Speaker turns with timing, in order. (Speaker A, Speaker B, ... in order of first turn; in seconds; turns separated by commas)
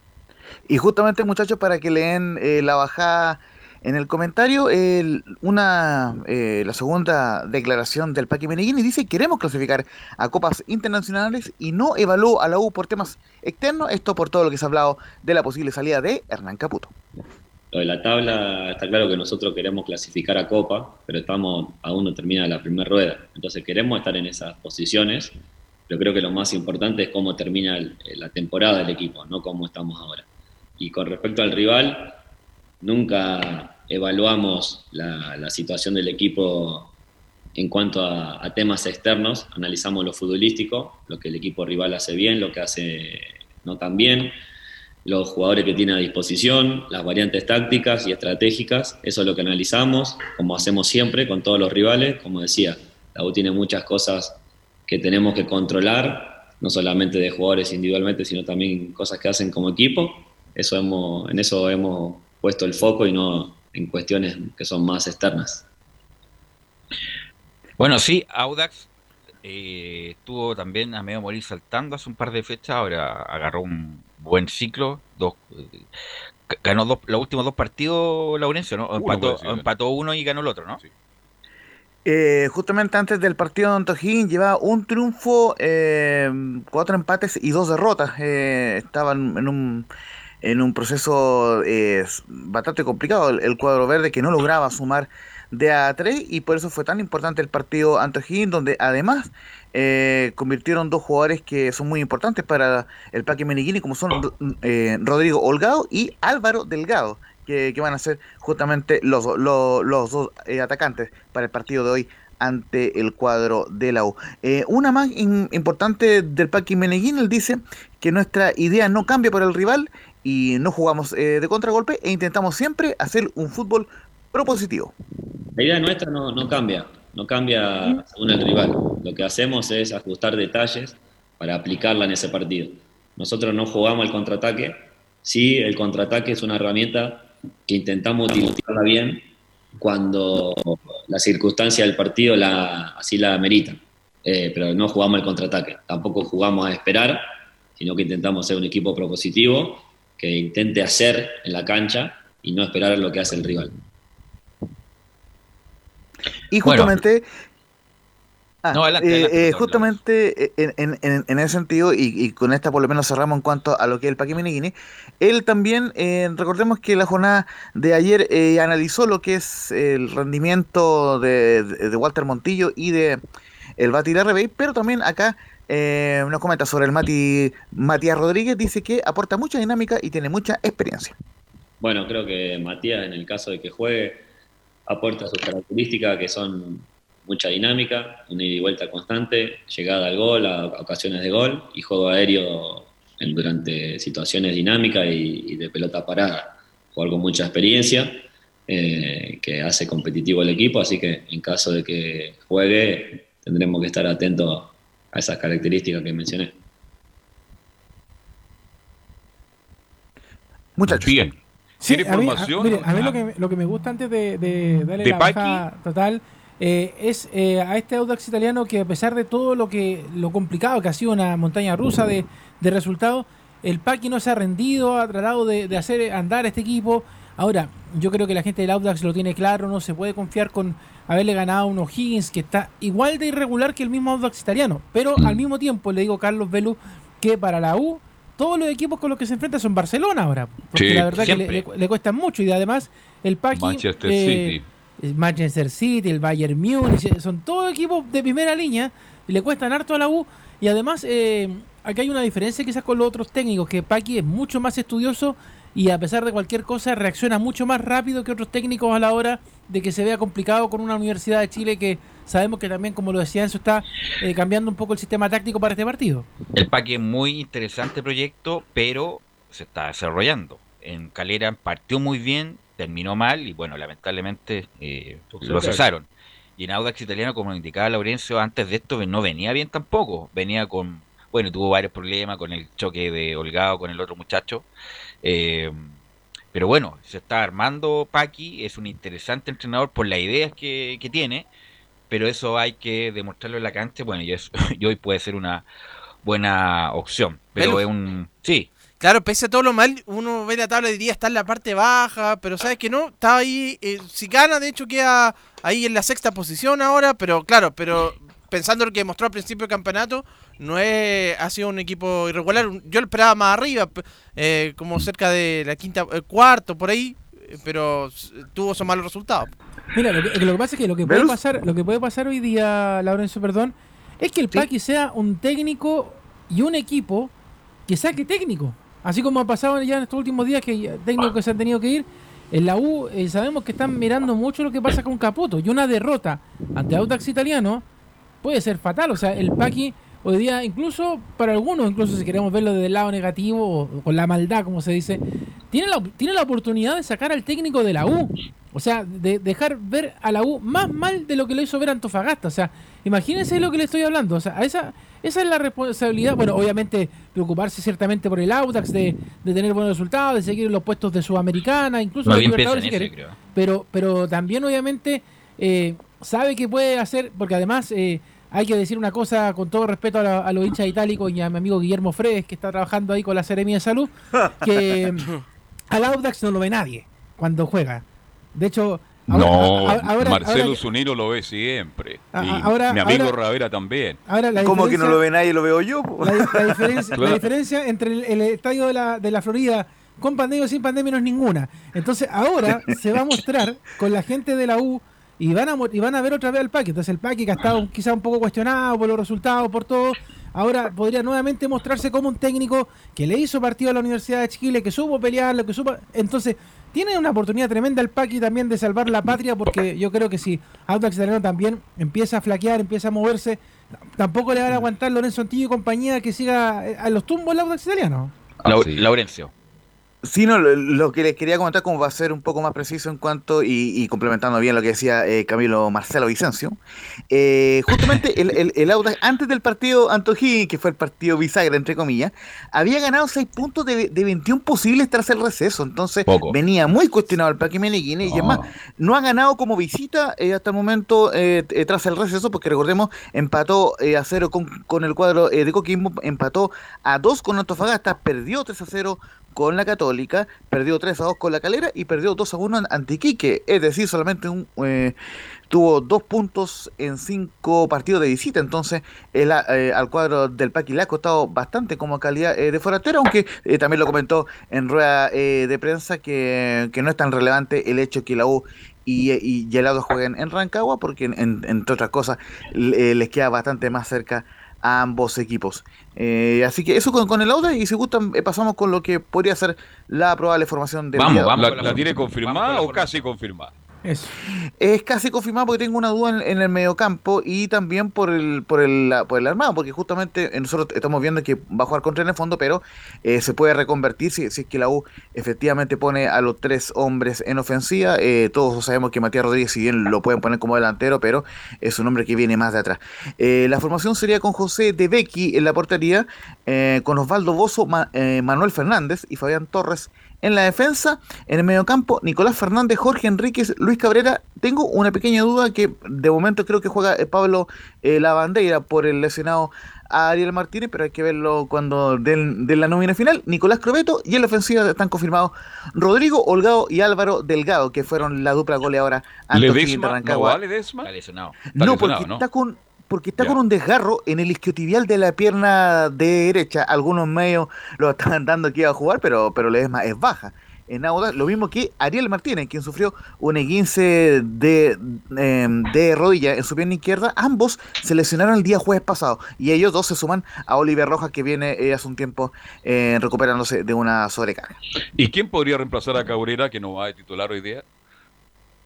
Speaker A: 0.7-16.9, Speaker B: 17.7-25.4, Speaker B: 25.9-30.2, Speaker B: 30.8-32.2, Speaker B: 32.8-36.9, Speaker B: 37.5-44.4, Speaker B: 45.0-65.7, Speaker C: 67.8-68.9, Speaker C: 69.4-75.9, Speaker C: 76.5-80.8, Speaker D: 79.0-79.7, Speaker A: 82.0-89.9, Speaker A: 90.4-124.9, Speaker B: 125.5-139.3, Speaker B: 139.8-147.3, Speaker B: 147.8-153.7, Speaker A: 156.5-157.2, Speaker C: 156.6-157.0, Speaker A: 158.6-173.2, Speaker C: 158.7-160.0, Speaker A: 173.8-181.1, Speaker B: 181.8-184.2, Speaker B: 184.9-206.6, Speaker A: 210.8-211.2, Speaker D: 210.9-213.2, Speaker E: 211.8-266.2, Speaker D: 215.0-215.6, Speaker D: 240.8-241.2, Speaker C: 241.1-241.6, Speaker D: 243.5-244.7, Speaker C: 266.6-284.7, Speaker D: 275.3-275.8, Speaker C: 285.2-285.9, Speaker C: 286.5-291.5, Speaker C: 292.1-295.6, Speaker C: 296.2-298.7, Speaker F: 297.6-297.8, Speaker F: 299.0-319.5, Speaker E: 319.9-327.3, Speaker A: 321.0-321.4, Speaker E: 327.9-337.8, Speaker E: 338.4-375.3, Speaker C: 362.2-363.4, Speaker E: 375.9-378.0, Speaker E: 378.6-380.8, Speaker D: 379.3-384.2, Speaker E: 382.3-383.3, Speaker E: 384.3-385.2, Speaker A: 384.6-387.2, Speaker E: 386.2-413.6, Speaker D: 387.1-387.4, Speaker E: 414.2-418.3, Speaker D: 418.6-419.0, Speaker C: 418.7-419.5, Speaker A: 420.2-426.8, Speaker A: 427.3-455.2, Speaker C: 436.3-436.6, Speaker D: 438.2-438.7, Speaker A: 455.7-481.9, Speaker C: 481.2-483.2, Speaker D: 481.5-483.7, Speaker E: 484.0-484.3, Speaker A: 484.8-530.6, Speaker D: 529.5-531.1, Speaker C: 531.0-531.6, Speaker A: 531.7-554.8, Speaker D: 531.7-532.4, Speaker D: 555.2-557.8